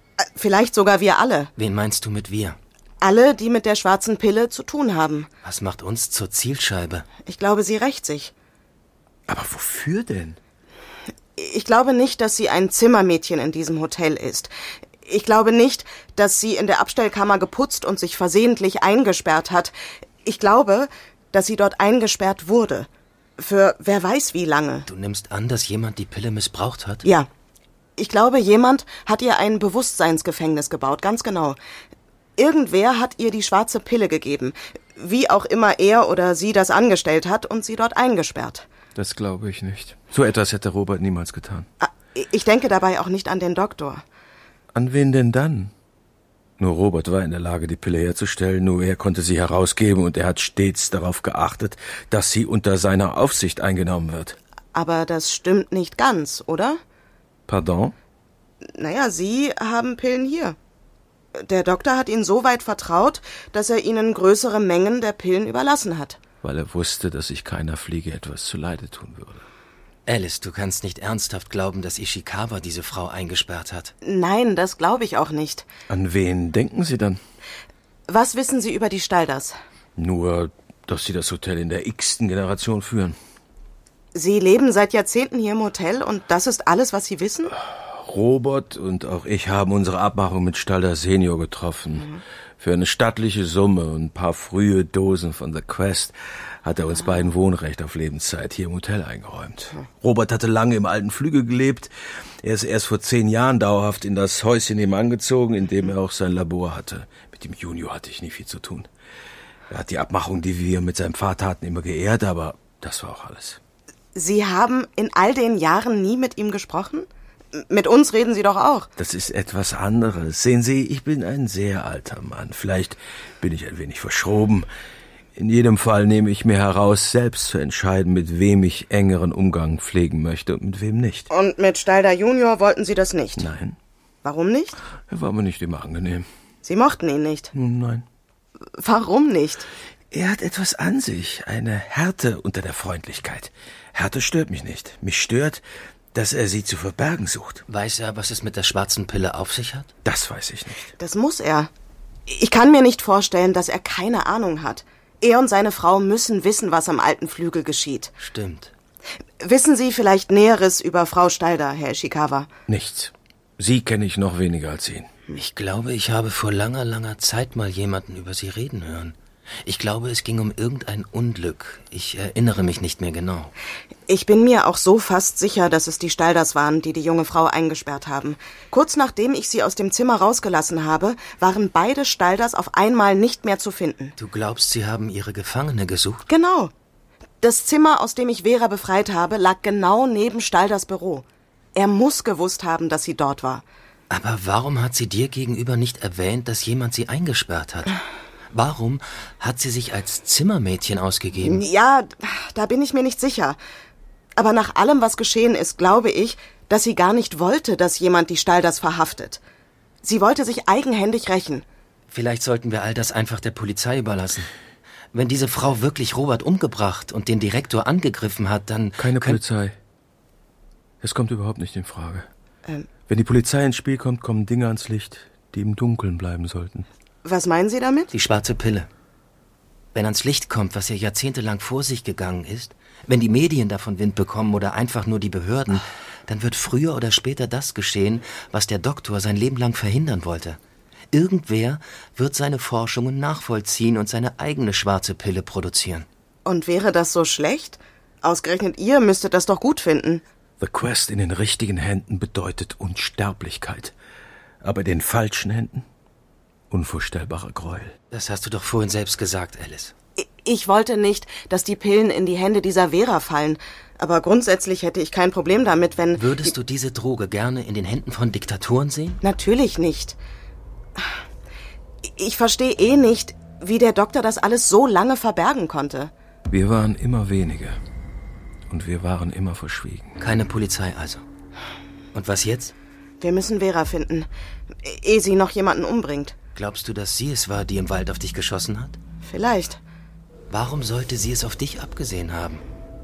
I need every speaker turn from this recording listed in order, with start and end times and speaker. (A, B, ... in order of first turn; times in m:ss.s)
0:00.2-0:01.5 A
0:01.6-0:02.6 B
0:03.0-0:05.3 A
0:05.4-0:07.1 B
0:07.2-0:08.3 A
0:09.3-0:10.4 C
0:11.4-0:14.5 A
0:15.0-0:19.7 A
0:20.2-0:24.9 A
0:24.9-0:27.1 B
0:28.0-0:31.6 A
0:32.4-0:38.7 A
0:39.0-0:41.7 C
0:41.8-0:44.0 A
0:44.7-0:45.7 C
0:46.6-0:54.4 C
0:54.7-0:56.8 A
0:57.5-0:58.0 C
0:58.6-1:00.6 A
1:01.4-1:06.2 A
1:06.4-1:09.4 C
1:10.1-1:13.9 B
1:14.0-1:15.7 A
1:15.9-1:17.2 C
1:18.1-1:19.6 A
1:20.0-1:23.2 C
1:24.1-1:27.6 A
1:27.7-1:48.9 C
1:49.7-1:53.6 C
1:54.2-1:58.9 A
1:59.0-2:04.7 C
2:05.4-2:11.3 C
2:11.3-2:13.5 A
2:13.4-2:13.8 C
2:14.2-2:14.8 A
2:15.1-2:16.3 C
2:16.6-2:17.5 A
2:17.5-2:18.0 C
2:18.8-2:19.7 A
2:20.1-2:25.6 C
2:26.1-2:27.6 C
2:27.7-2:29.9 B
2:30.0-2:30.9 C
2:31.0-2:31.7 A
2:32.3-2:38.1 A
2:38.2-2:38.7 B
2:39.4-2:42.5 A
2:42.7-2:45.1 C
2:45.3-2:53.5 B
2:54.1-3:04.1 A
3:04.2-3:06.3 B
3:06.3-3:06.7 A
3:07.4-3:13.6 A
3:14.1-3:18.0 B
3:18.5-3:21.6 B
3:21.4-3:23.6 A
3:24.4-3:29.4 A
3:30.0-3:31.6 A
3:32.1-3:34.5 B
3:35.1-3:39.4 B
3:39.0-3:39.8 C
3:41.0-3:42.3 C
3:43.1-3:46.9 C
3:47.2-3:48.1 A
3:48.1-3:48.9 B
3:49.9-4:00.6 B
4:01.1-4:06.1 B
4:06.4-4:10.2 A
4:10.6-4:13.9 C
4:14.6-4:15.9 C
4:16.7-4:18.0 C
4:18.1-4:19.9 B
4:20.2-4:26.5 A
4:26.2-4:29.2 B
4:29.2-4:30.2 A
4:32.0-4:36.1 A
4:36.5-4:37.8 C
4:38.7-4:40.2 C
4:40.2-4:41.2 B
4:42.1-4:42.7 B
4:43.2-4:44.3 A
4:44.8-4:46.4 A
4:46.6-4:49.0 B
4:49.2-4:49.8 A
4:50.5-4:52.6 B